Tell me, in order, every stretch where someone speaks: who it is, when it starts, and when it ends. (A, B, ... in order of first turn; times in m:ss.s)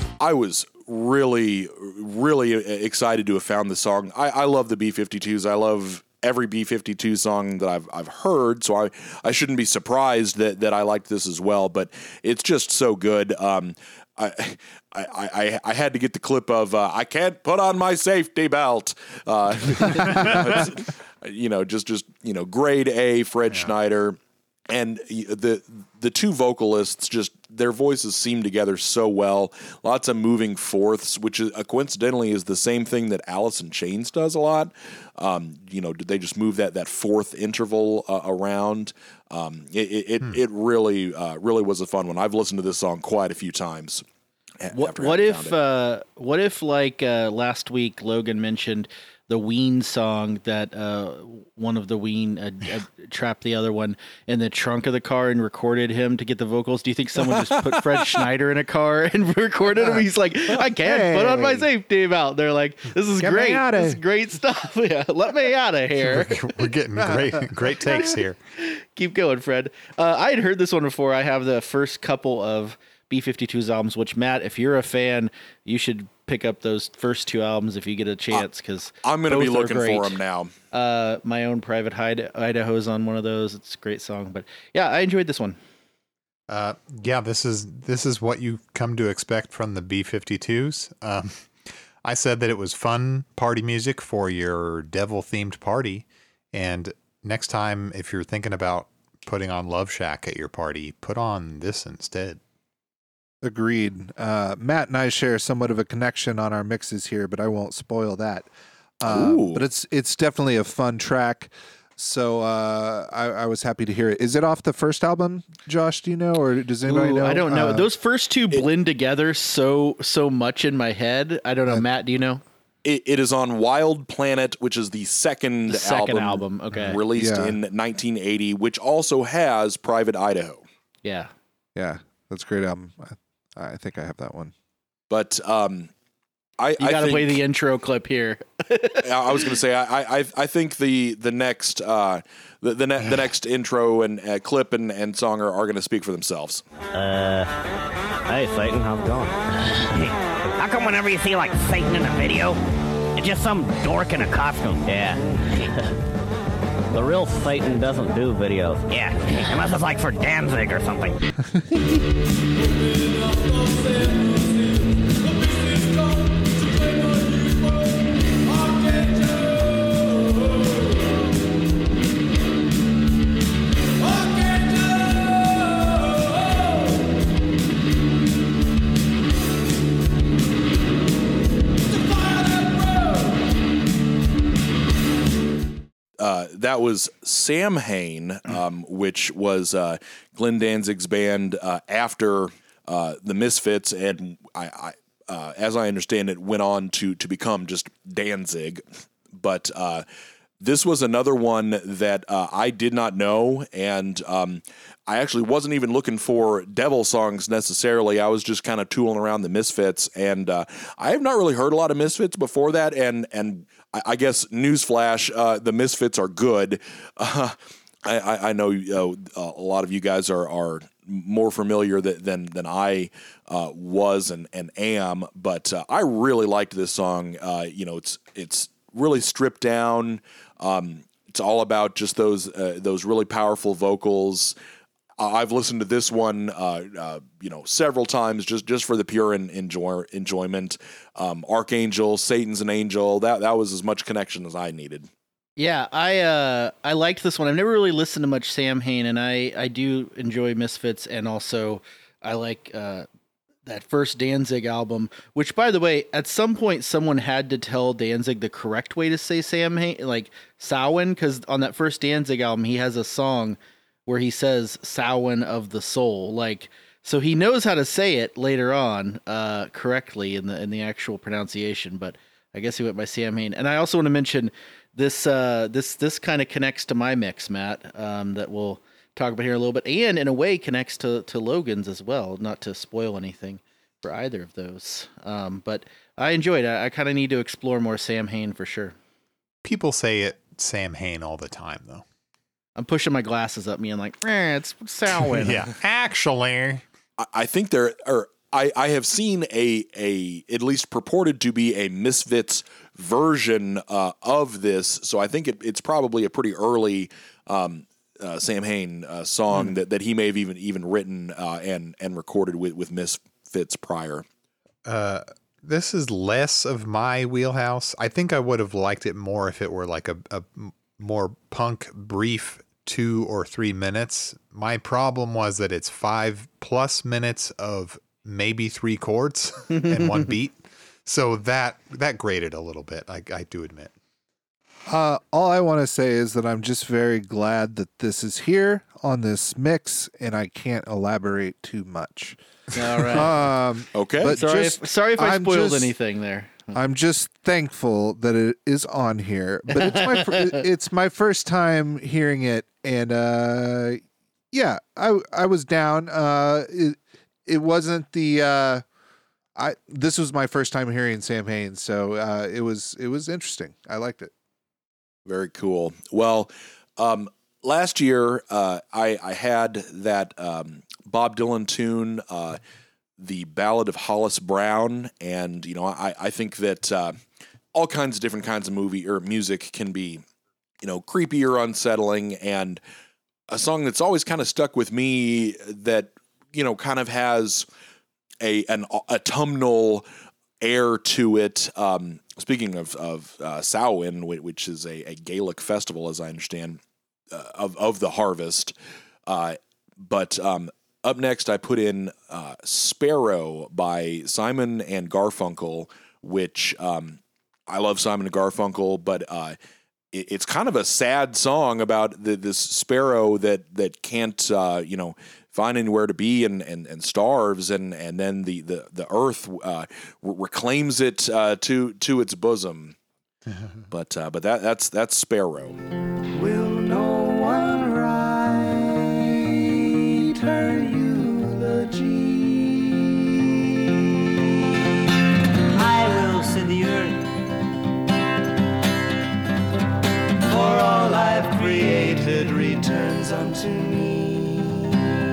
0:00.2-0:24.2 A
0:19.8-0:20.7 B
0:24.7-0:44.0 A
0:44.6-0:45.6 A
0:44.7-1:06.4 C
1:00.8-1:01.7 D
1:03.2-1:04.0 D
1:06.0-1:08.4 B
1:07.0-1:08.2 D
1:08.6-1:20.2 C
1:19.0-1:20.5 A
1:20.7-1:25.6 C
1:26.5-1:42.4 B
1:43.4-1:48.5 D
1:49.0-1:57.9 D
1:49.1-1:49.6 A
1:56.9-2:02.4 C
2:02.8-2:10.6 A
2:05.7-2:07.0 C
2:07.1-2:07.6 D
2:11.0-2:11.3 C
2:11.8-2:14.5 D
2:15.1-2:15.9 A
2:16.6-2:17.4 A
2:16.8-2:19.4 C
2:19.0-2:26.6 A
2:26.9-2:27.5 E
2:28.3-2:32.6 E
2:33.2-2:35.8 E
2:36.9-2:41.2 E
2:41.5-2:41.9 D
3:06.2-3:18.8 A
3:19.3-3:20.0 A
3:20.6-3:54.6 A
3:55.2-4:05.1 A
4:05.6-4:13.1 C
4:13.7-4:49.0 C
4:49.6-4:52.0 B
4:52.8-4:55.6 C
4:55.3-4:56.8 B
4:57.2-5:14.2 A
5:14.9-5:33.9 B
5:29.8-5:30.2 C
5:34.9-5:42.4 D
5:42.8-5:43.3 C
5:43.0-5:45.9 D
5:44.0-5:44.4 A
5:44.4-5:46.8 C
5:46.7-5:54.0 D
5:49.7-5:50.6 C
5:54.5-5:58.8 D
5:59.6-6:04.3 D
6:05.3-6:12.6 A
6:13.2-6:17.2 A
6:17.7-6:20.2 A
6:20.8-6:22.8 A
6:23.5-6:27.7 A
6:28.4-6:30.0 A
6:30.6-6:36.8 A
6:37.3-6:38.7 A
6:39.3-6:49.6 A
6:50.1-7:03.0 A
7:03.5-7:03.8 B
7:03.9-7:05.8 A
7:06.4-7:13.8 F
7:15.7-7:17.3 F
7:20.5-7:24.9 F